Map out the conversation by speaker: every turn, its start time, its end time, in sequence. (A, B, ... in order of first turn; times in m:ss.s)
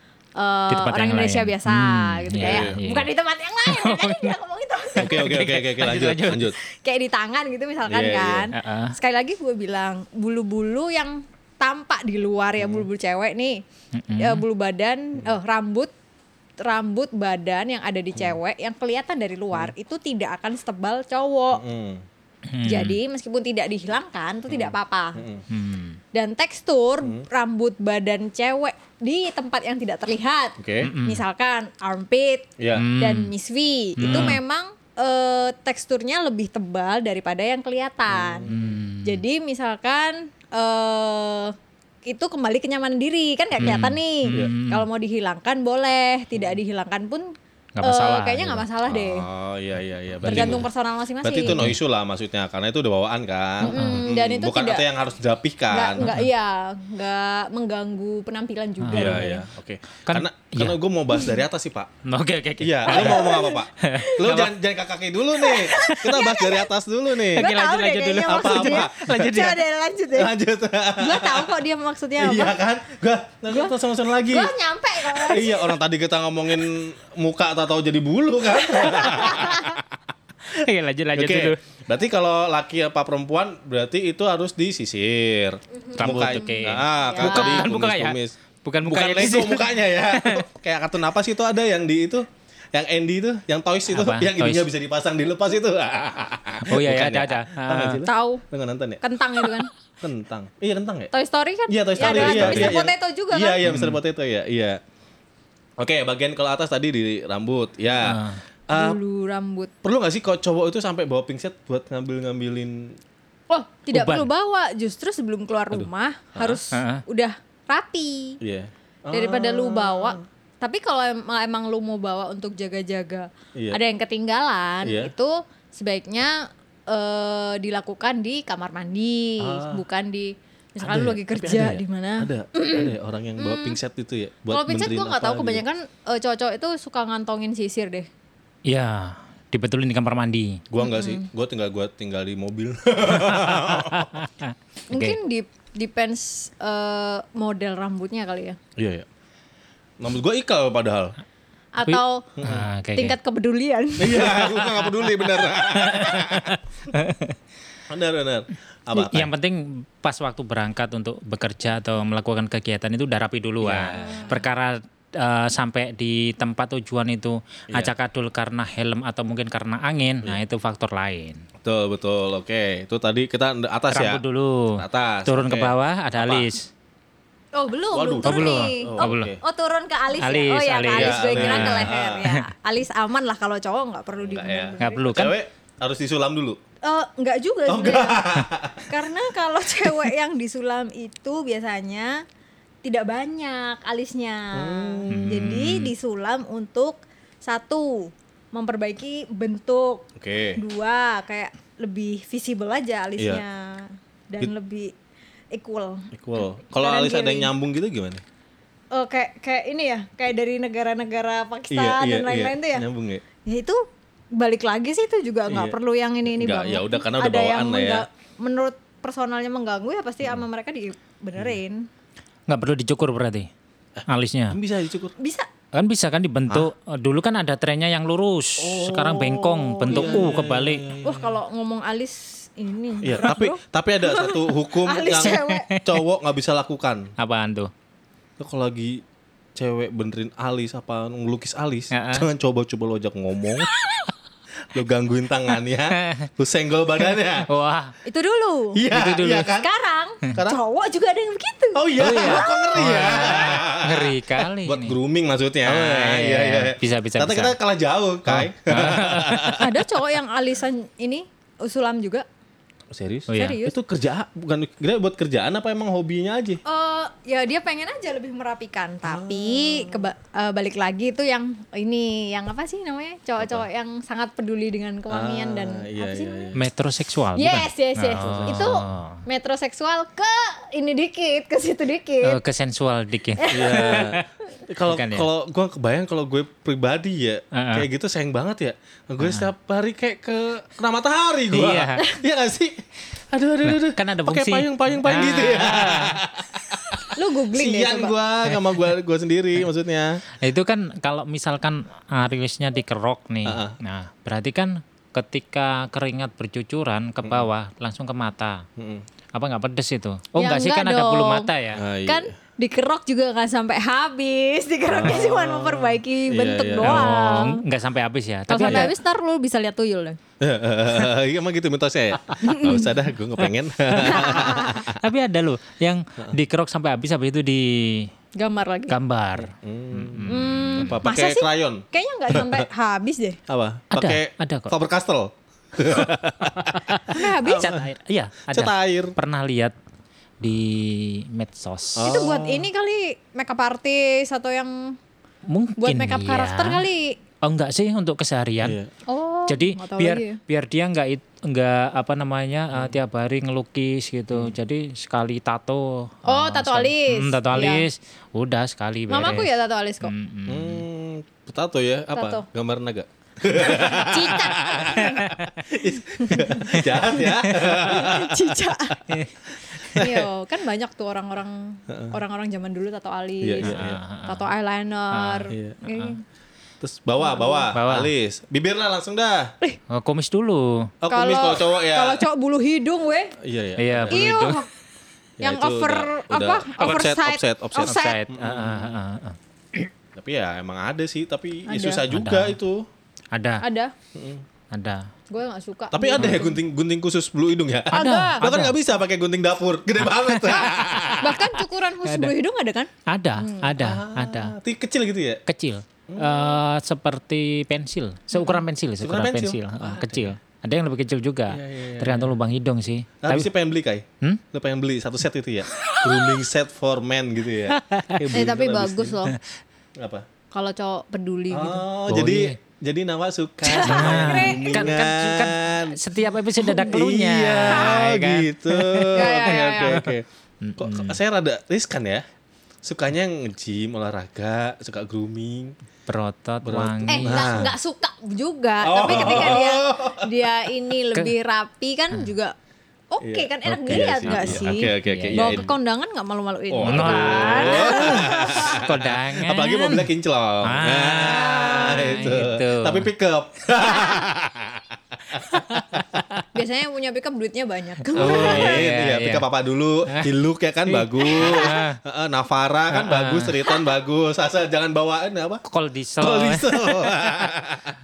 0:00.4-0:05.3 A
0:00.7-0:03.1 B
0:02.4-0:02.8 C
0:03.6-0:04.3 B
0:05.0-0:06.5 B
0:05.0-0:06.6 C
0:06.6-0:13.6 A
0:07.9-0:08.5 C
0:08.5-0:08.9 B
0:12.6-0:12.9 C
0:13.9-0:14.4 B
0:14.2-0:15.9 A
0:16.6-0:21.6 A
0:21.5-0:22.0 C
0:22.5-0:23.0 B
0:22.6-0:25.2 A
0:24.5-0:25.4 C
0:25.5-0:26.0 B
0:26.1-0:38.5 A
0:30.6-0:30.9 C
0:30.8-0:31.2 B
0:32.6-0:32.9 C
0:32.7-0:33.3 B
0:34.0-0:34.4 C
0:34.0-0:34.4 B
0:38.1-0:38.8 C
0:38.5-0:39.2 B
0:39.0-0:41.5 A
0:42.0-0:47.3 A
0:43.6-0:44.5 C
0:43.6-0:44.9 B
0:47.8-0:48.6 B
0:47.8-0:49.2 A
0:48.9-0:50.6 C
0:50.2-0:50.6 B
0:50.2-0:51.6 A
0:51.2-0:56.2 C
0:51.5-0:51.8 B
0:53.6-0:54.0 B
0:53.6-0:54.9 A
0:55.7-0:59.4 A
0:56.0-0:56.3 B
0:58.8-0:59.4 B
0:58.9-1:01.9 C
1:00.0-1:00.8 B
1:02.0-1:04.5 B
1:02.6-1:07.5 C
1:02.9-1:04.2 A
1:05.4-1:06.7 A
1:05.8-1:06.2 B
1:07.3-1:10.3 A
1:07.3-1:09.6 B
1:08.2-1:09.5 C
1:10.1-1:11.5 C
1:11.0-1:12.6 A
1:12.2-1:19.9 C
1:14.3-1:15.8 A
1:18.6-1:19.8 A
1:20.5-1:21.6 B
1:21.1-1:39.0 C
1:25.8-1:27.6 A
1:26.0-1:30.4 B
1:33.9-1:34.6 B
1:36.6-1:38.0 B
1:38.0-1:38.4 A
1:39.0-1:39.7 A
1:40.0-1:41.1 C
1:41.1-1:43.6 A
1:41.7-1:44.8 C
1:42.0-1:42.8 B
1:43.6-1:44.0 B
1:45.8-1:49.0 C
1:48.0-1:48.4 B
1:48.7-1:49.7 A
1:49.8-1:53.0 C
1:53.5-1:58.4 A
1:53.9-1:54.3 B
1:55.7-1:56.6 C
1:56.7-1:57.0 B
1:58.4-2:00.2 C
1:59.1-2:13.8 A
2:04.8-2:05.1 C
2:09.4-2:09.8 C
2:10.8-2:15.6 C
2:14.5-2:18.1 A
2:18.6-2:20.6 B
2:20.7-2:24.1 C
2:20.8-2:21.2 A
2:23.1-2:25.2 B
2:24.9-2:28.6 A
2:28.8-2:29.1 C
2:30.0-2:31.1 C
2:31.8-2:32.3 A
2:31.8-2:33.2 B
2:32.4-2:32.7 C
2:32.9-2:34.5 A
2:34.0-2:36.6 C
2:35.6-2:37.4 B
2:37.9-2:39.3 C
2:39.0-2:51.4 B
2:43.6-2:44.4 C
2:44.0-2:44.3 A
2:51.6-2:54.2 C
2:53.9-2:56.7 B
2:54.8-2:56.5 C
2:57.5-3:05.1 A
2:57.9-2:59.4 C
2:58.2-2:59.3 B
3:00.2-3:02.4 B
3:00.9-3:02.2 C
3:04.2-3:06.6 C
3:04.8-3:05.4 B
3:06.8-3:12.2 A
3:07.7-3:08.9 C
3:12.8-3:24.9 A
3:14.5-3:15.3 C
3:15.1-3:15.9 B
3:20.2-3:20.6 C
3:23.2-3:23.4 C
3:25.5-3:27.5 A
3:26.1-3:28.2 C
3:28.9-3:32.9 A
3:31.7-3:33.2 C
3:33.4-3:33.8 A
3:34.4-3:41.9 A
3:35.5-3:38.0 C
3:42.5-3:43.5 B
3:44.0-3:45.1 C
3:44.1-3:44.6 B
3:45.2-3:45.5 A
3:45.7-3:50.9 B
3:48.6-3:51.4 C
3:49.8-3:50.3 A
3:51.0-3:55.7 A
3:53.0-3:57.1 C
3:55.3-3:55.9 B
3:57.2-3:57.7 B
3:58.4-3:59.0 C
3:59.6-4:03.7 C
4:01.9-4:02.2 B
4:04.7-4:07.5 C
4:05.9-4:06.3 B
4:07.5-4:07.9 B
4:08.0-4:08.8 A
4:08.8-4:09.7 C
4:08.9-4:09.5 B
4:09.6-4:13.0 A
4:10.3-4:10.6 C
4:11.8-4:19.7 C
4:12.0-4:15.0 B
4:15.6-4:17.5 B
4:18.3-4:19.7 B
4:19.6-4:22.2 A
4:22.9-4:26.6 C
4:23.3-4:23.6 B
4:23.3-4:23.8 A
4:26.6-4:36.5 A
4:29.0-4:30.0 C
4:33.4-4:33.6 C
4:35.1-4:36.6 C
4:36.6-4:39.2 B
4:37.4-4:42.4 A
4:38.2-4:38.7 C
4:42.2-4:44.2 B
4:43.4-4:44.1 A
4:43.5-5:00.2 C
4:44.9-4:45.3 B
4:47.5-4:47.9 B
4:49.2-4:49.5 B
4:51.5-4:52.0 B
4:53.6-4:56.2 B
4:57.1-4:58.1 A
4:58.5-4:58.8 B
5:00.4-5:08.6 B
5:03.4-5:03.8 C
5:08.8-5:09.0 C
5:09.3-5:11.8 B
5:10.4-5:11.5 A
5:11.7-5:12.3 C
5:12.0-5:17.6 A
5:14.9-5:17.1 C
5:16.8-5:18.9 B
5:18.5-5:20.2 A
5:20.4-5:25.0 C
5:22.4-5:22.9 A
5:23.4-5:28.1 B
5:24.0-5:24.9 A
5:28.4-5:29.0 A
5:28.9-5:31.0 B
5:29.4-5:32.6 C
5:30.3-5:33.4 A
5:33.5-5:37.8 C
5:33.9-5:34.7 B
5:37.0-5:39.7 B
5:37.0-5:37.8 A
5:38.5-5:39.2 C
5:40.4-5:42.1 B
5:42.0-5:42.7 C
5:42.0-5:45.0 A
5:45.5-5:46.9 B
5:45.8-5:47.2 A
5:47.4-5:48.8 B
5:48.6-5:48.9 C
5:49.1-5:50.4 A
5:49.5-5:59.5 B
5:56.2-5:57.9 A
5:59.1-6:00.1 A
6:00.0-6:00.8 B
6:00.5-6:09.2 C
6:02.1-6:02.4 A
6:03.5-6:05.3 A
6:05.2-6:05.5 B
6:06.1-6:09.0 A
6:06.7-6:07.7 B
6:09.1-6:10.0 B
6:09.7-6:10.3 C
6:09.9-6:16.2 A
6:11.9-6:12.2 C
6:13.4-6:14.0 C
6:13.6-6:14.5 B
6:15.1-6:16.1 B
6:15.5-6:15.8 C
6:16.8-6:19.5 C
6:17.2-6:17.7 A
6:17.7-6:18.1 B
6:19.9-6:20.9 B
6:21.0-6:22.2 C
6:21.1-6:23.4 A
6:23.4-6:24.4 C
6:23.8-6:24.6 B
6:24.1-6:24.7 A
6:25.4-6:29.0 C
6:25.4-6:28.2 A
6:27.8-6:29.4 B
6:30.1-6:32.9 C
6:31.7-6:32.0 A
6:32.1-6:32.6 B
6:33.3-6:33.6 B
6:33.6-6:33.9 A
6:34.1-6:34.4 C
6:34.7-6:35.1 B
6:35.3-6:36.6 A
6:35.9-6:41.4 C
6:37.9-6:38.4 A
6:37.9-6:38.8 B
6:40.0-6:41.2 B
6:41.2-6:43.7 A
6:42.0-6:42.3 B
6:43.1-6:44.6 B
6:43.8-6:45.4 C
6:45.5-6:53.5 B
6:46.1-6:46.6 C
6:48.3-6:48.6 A
6:49.0-6:50.4 C
6:51.5-6:52.3 C
6:53.2-6:59.2 C
6:57.7-6:58.2 B
6:58.3-6:59.4 A
7:00.0-7:00.2 C
7:00.5-7:01.8 A
7:01.5-7:06.0 C
7:02.1-7:02.6 B
7:03.6-7:04.9 A
7:03.8-7:10.1 B
7:06.6-7:10.2 C
7:06.7-7:06.9 A
7:07.7-7:08.0 A
7:09.1-7:10.0 A
7:10.6-7:11.2 B
7:10.8-7:12.2 C
7:12.8-7:15.8 C
7:16.1-7:17.7 B
7:16.6-7:17.7 C
7:17.1-7:22.5 A
7:18.8-7:20.5 C
7:23.1-7:28.8 A
7:23.2-7:25.7 C
7:23.7-7:25.7 B
7:26.7-7:36.0 C
7:26.8-7:30.1 B
7:30.6-7:33.1 B
7:31.3-7:32.1 A
7:33.9-7:34.2 A
7:35.5-7:36.4 B
7:36.5-7:38.9 A
7:38.1-7:39.5 B
7:38.1-7:45.6 C
7:40.9-7:42.0 B
7:41.3-7:41.7 A
7:42.9-7:43.6 B
7:45.6-7:47.2 B
7:46.2-7:47.9 C